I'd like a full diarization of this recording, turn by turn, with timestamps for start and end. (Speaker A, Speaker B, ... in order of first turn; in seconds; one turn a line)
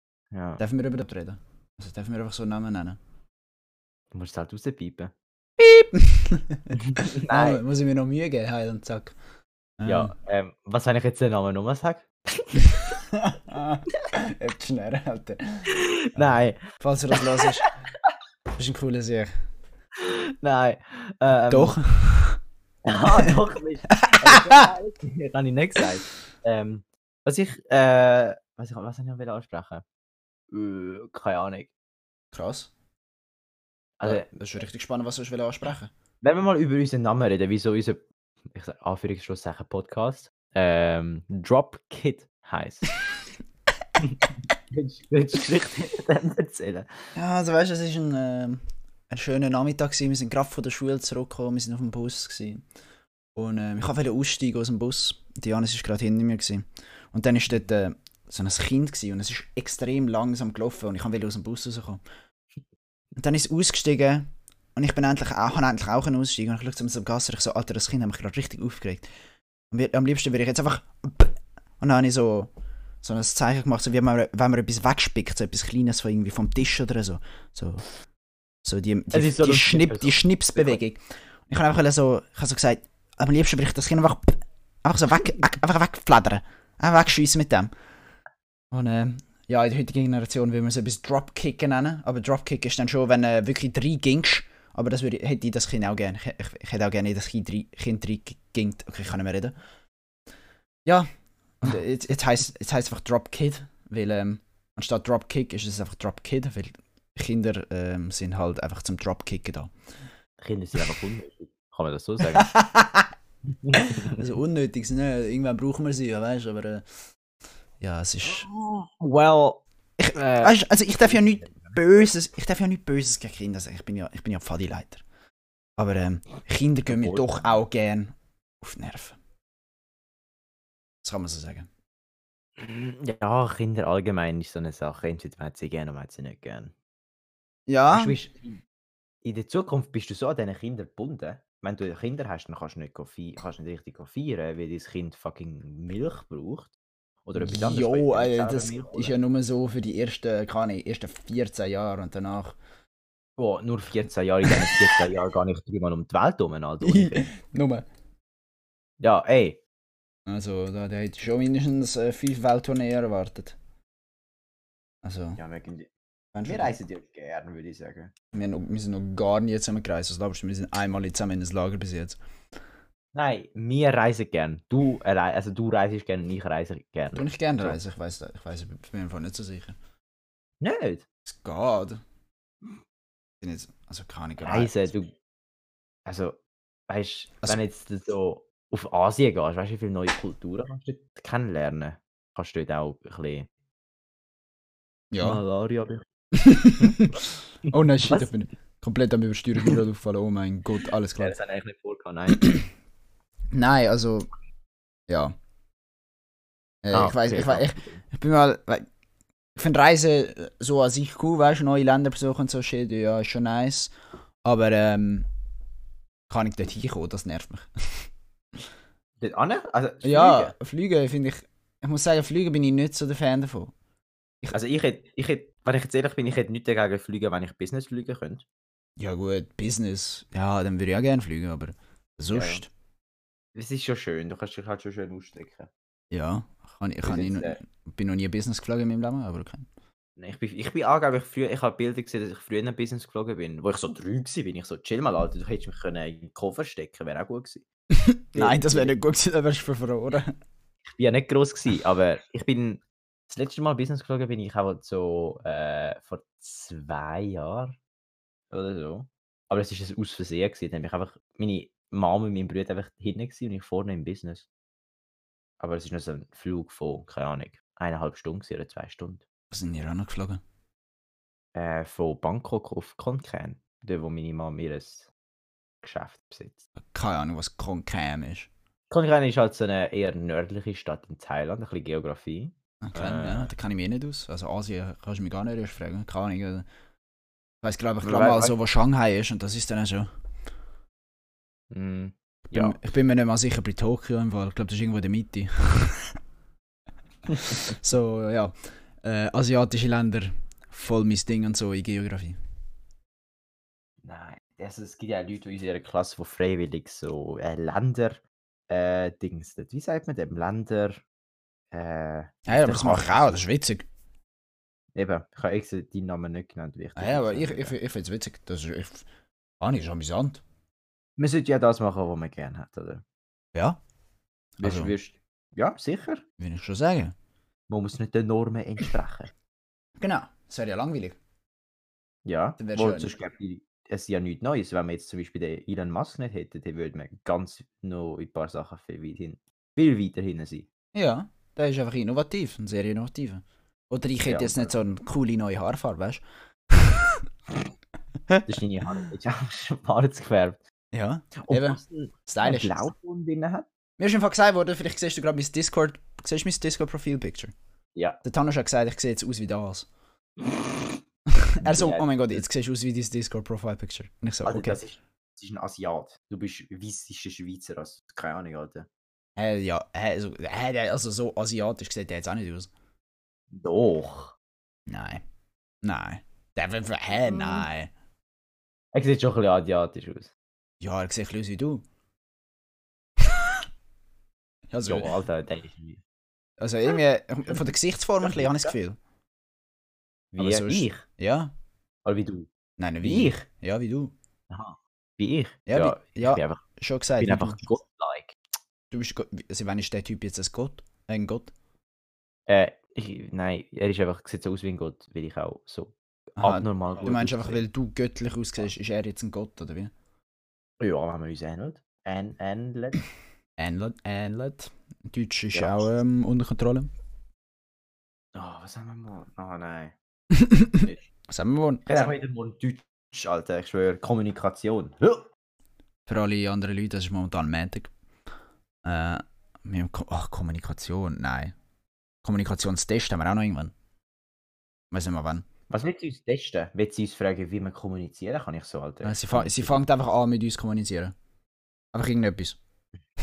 Speaker A: 0.3-0.6
Speaker B: 0.6-3.0
Speaker A: 4.1-5.1
Speaker B: 5.6-9.2
Speaker A: 6.8-7.6
Speaker B: 9.8-10.1
Speaker A: 9.8-13.0
Speaker B: 12.8-17.6
Speaker A: 15.7-16.6
Speaker A: 17.1-18.1
Speaker B: 18.6-19.3
Speaker A: 19.9-21.8
Speaker B: 21.5-22.4
Speaker A: 22.9-29.9
Speaker B: 24.0-24.7
Speaker A: 30.5-31.7
Speaker B: 32.3-32.7
Speaker A: 34.0-34.3
Speaker B: 34.0-35.9
Speaker A: 36.2-42.9
Speaker A: 44.0-46.9
Speaker B: 47.1-52.6
Speaker B: 53.4-62.0
Speaker B: 63.2-69.1
Speaker B: 69.7-72.5
Speaker B: 73.0-77.8
Speaker B: 78.6-87.7
Speaker A: 79.1-80.8
Speaker B: 88.7-99.5
Speaker B: 101.6-109.7
Speaker A: 110.4-112.5
Speaker B: 112.2-113.1
Speaker A: 113.5-114.2
Speaker B: 113.8-116.8
Speaker B: 117.8-118.5
Speaker A: 118.2-122.0
Speaker B: 120.0-125.0
Speaker B: 125.8-129.2
Speaker A: 126.8-127.6
Speaker B: 131.0-131.7
Speaker A: 132.6-136.7
Speaker B: 137.7-138.2
Speaker A: 137.9-138.6
Speaker A: 139.2-149.2
Speaker B: 147.4-152.6
Speaker A: 153.4-157.3
Speaker B: 156.8-157.8
Speaker A: 159.0-159.6
Speaker B: 160.3-163.6
Speaker B: 165.0-165.4
Speaker A: 165.4-165.9
Speaker B: 166.3-166.7
Speaker A: 166.4-168.1
Speaker B: 168.3-172.2
Speaker A: 173.1-177.8
Speaker B: 177.1-179.8
Speaker A: 180.6-181.1
Speaker B: 181.3-182.0
Speaker B: 183.4-184.9
Speaker A: 184.4-185.1
Speaker A: 186.1-193.5
Speaker B: 195.1-195.4
Speaker A: 195.2-196.1
Speaker B: 196.3-197.2
Speaker A: 196.8-197.1
Speaker A: 197.7-198.3
Speaker B: 197.7-201.4
Speaker A: 201.2-202.5
Speaker B: 203.5-204.3
Speaker B: 205.1-205.3
Speaker B: 206.8-208.8
Speaker A: 206.9-208.0
Speaker B: 209.6-213.9
Speaker B: 214.4-215.3
Speaker B: 216.3-218.1
Speaker A: 219.2-220.5
Speaker B: 220.0-223.7
Speaker A: 224.5-228.4
Speaker B: 229.0-232.7
Speaker A: 232.3-232.6
Speaker A: 233.6-235.7
Speaker B: 236.1-239.7
Speaker A: 237.1-237.6
Speaker A: 240.2-247.7
Speaker B: 247.9-250.3
Speaker A: 248.3-248.9
Speaker A: 250.8-257.8
Speaker A: 258.5-264.5
Speaker A: 265.6-269.2
Speaker B: 269.5-270.4
Speaker A: 271.6-275.1
Speaker A: 275.8-276.6
Speaker B: 276.9-278.5
Speaker A: 278.9-283.5
Speaker B: 282.8-286.7
Speaker B: 287.6-290.1
Speaker A: 288.0-288.5
Speaker A: 291.7-292.8
Speaker B: 292.5-296.2
Speaker B: 297.5-302.4
Speaker A: 304.0-311.0
Speaker A: 311.7-313.4
Speaker B: 312.5-313.9
Speaker A: 314.9-317.8
Speaker B: 316.9-319.1
Speaker B: 319.6-320.4
Speaker A: 321.2-323.0
Speaker B: 324.6-324.9
Speaker A: 324.6-326.2
Speaker B: 326.4-327.1
Speaker A: 327.7-329.3
Speaker B: 330.0-331.2
Speaker A: 332.2-340.7
Speaker B: 332.6-333.1
Speaker B: 340.9-347.2
Speaker A: 344.3-344.7
Speaker B: 348.3-349.1
Speaker A: 348.4-350.6
Speaker B: 350.9-352.8
Speaker A: 351.4-353.7
Speaker B: 354.0-357.5
Speaker B: 358.2-359.9
Speaker A: 360.4-361.0
Speaker B: 361.3-364.8
Speaker A: 361.6-362.4
Speaker A: 364.4-368.9
Speaker B: 369.4-372.7
Speaker A: 373.5-374.4
Speaker B: 374.9-375.2
Speaker B: 375.8-377.9
Speaker A: 378.9-380.3
Speaker B: 380.8-381.8
Speaker B: 383.2-383.7
Speaker B: 384.7-385.1
Speaker A: 384.8-386.0
Speaker B: 386.6-389.0
Speaker A: 388.2-388.8
Speaker A: 390.3-391.1
Speaker B: 390.4-391.5
Speaker A: 392.1-392.5
Speaker B: 392.8-394.1
Speaker A: 393.0-393.4
Speaker A: 394.5-396.6
Speaker B: 395.7-397.6
Speaker A: 397.2-398.4
Speaker B: 398.9-401.5
Speaker A: 402.5-407.6
Speaker B: 406.4-409.9
Speaker A: 410.8-413.0
Speaker B: 413.6-416.9
Speaker A: 415.5-415.9
Speaker A: 418.3-419.9
Speaker B: 420.3-421.8
Speaker A: 421.9-425.3
Speaker B: 426.1-427.9
Speaker B: 428.8-431.5
Speaker B: 432.2-433.7
Speaker B: 434.9-435.4
Speaker A: 435.7-439.8
Speaker B: 439.0-441.1
Speaker B: 441.9-442.6